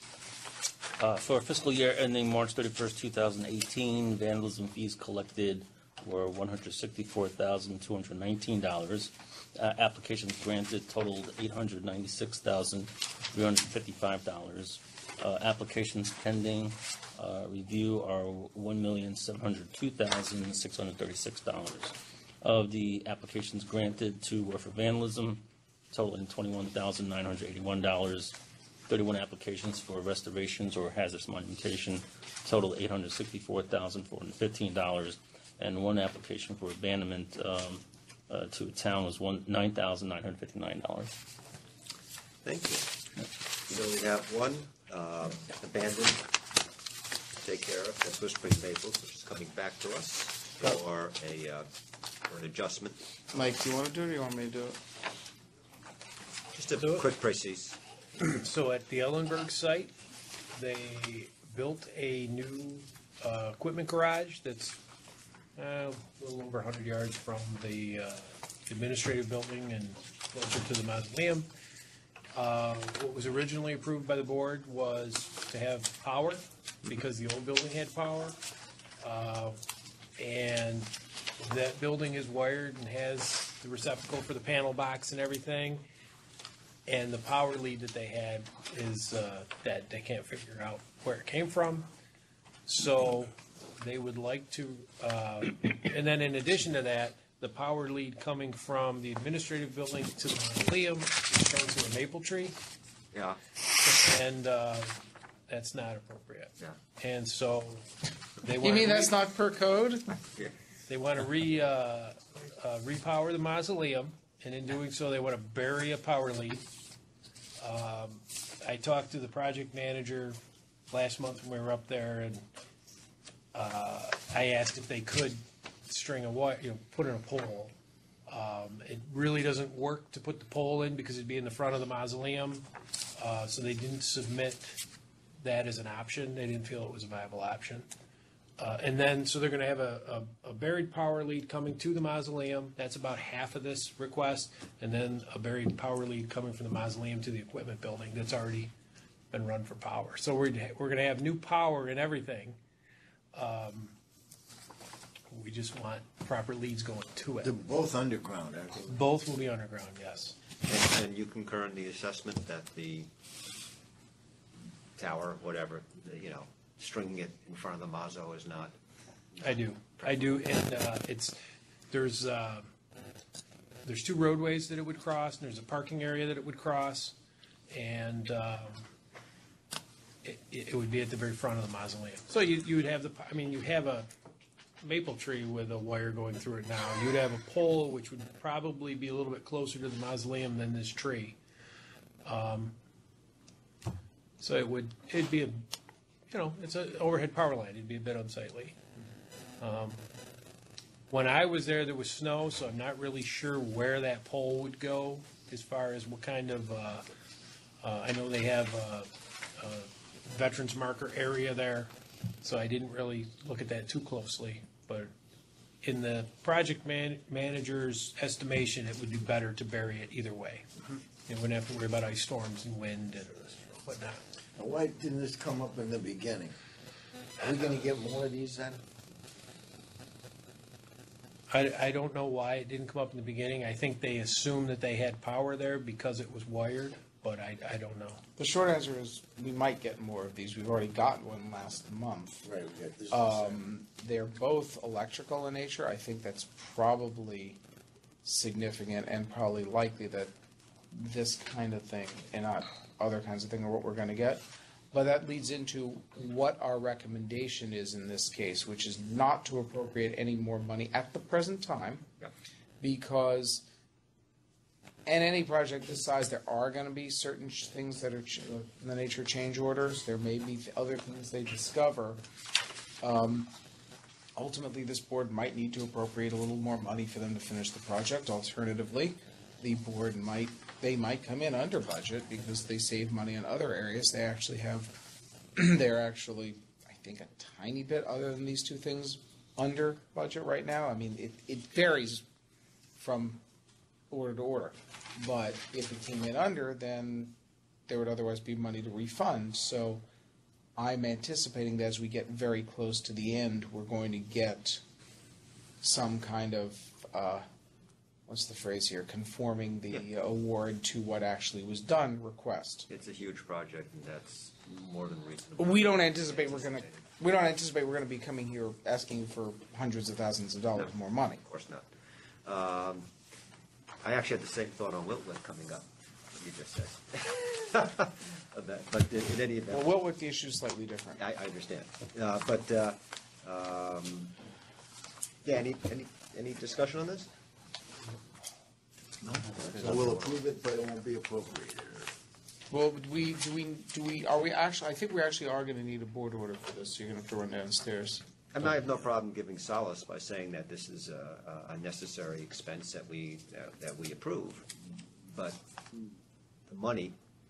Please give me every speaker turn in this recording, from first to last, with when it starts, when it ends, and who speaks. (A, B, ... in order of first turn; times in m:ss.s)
0:01.0-0:41.1 A
0:42.4-0:42.9 B
0:43.7-0:46.2 B
0:47.4-0:51.7 B
0:52.3-0:53.0 B
0:53.3-0:54.8 C
0:56.5-0:57.8 B
0:56.7-0:57.1 D
0:58.3-0:59.9 D
1:00.5-1:04.8 D
1:05.6-1:11.5 D
1:12.3-1:18.4 D
1:19.0-1:19.6 D
1:20.2-1:25.8 D
1:26.8-1:31.9 D
1:32.6-1:42.6 D
1:43.1-1:43.4 B
1:43.8-1:47.9 D
1:48.4-1:49.2 D
1:48.6-1:50.1 C
1:50.9-1:56.6 D
1:57.6-2:02.4 D
2:03.5-2:07.7 D
2:08.3-2:14.8 D
2:15.4-2:17.9 D
2:18.6-2:28.7 D
2:29.3-2:32.6 D
2:33.3-2:33.9 D
2:35.3-2:37.6 D
2:37.4-2:38.9 E
2:38.8-2:40.4 D
2:40.6-2:43.1 B
2:45.0-2:48.7 B
2:49.4-2:50.4 B
2:49.4-2:51.4 D
2:51.9-2:52.7 D
2:53.8-2:57.1 D
2:57.7-2:58.9 D
3:00.2-3:04.1 D
3:04.8-3:11.4 D
3:12.2-3:12.8 D
3:14.4-3:15.7 D
3:16.3-3:18.8 D
3:19.6-3:20.0 D
3:21.1-3:27.0 D
3:27.8-3:35.1 D
3:35.8-3:40.7 D
3:41.2-3:44.2 D
3:44.6-3:46.5 E
3:47.4-3:48.8 E
3:51.5-3:58.2 D
3:58.4-4:02.4 C
4:02.4-4:03.6 E
4:03.1-4:07.6 C
4:08.2-4:10.3 C
4:10.9-4:22.1 C
4:22.8-4:23.6 C
4:25.0-4:32.2 C
4:33.0-4:33.5 C
4:34.4-4:44.9 C
4:45.6-4:52.2 C
4:53.0-4:53.4 C
4:54.1-4:57.3 C
4:57.9-5:00.0 C
5:00.8-5:04.8 C
5:05.8-5:07.5 C
5:08.3-5:12.9 C
5:12.9-5:17.1 B
5:15.6-5:21.4 C
5:20.8-5:21.9 B
5:22.4-5:23.1 B
5:24.0-5:29.9 B
5:29.7-5:31.2 C
5:31.2-5:34.3 B
5:35.4-5:37.3 B
5:39.2-5:42.1 E
5:39.5-5:40.4 B
5:42.7-5:48.2 C
5:48.5-5:54.7 B
5:55.3-5:56.1 B
5:56.7-5:57.2 B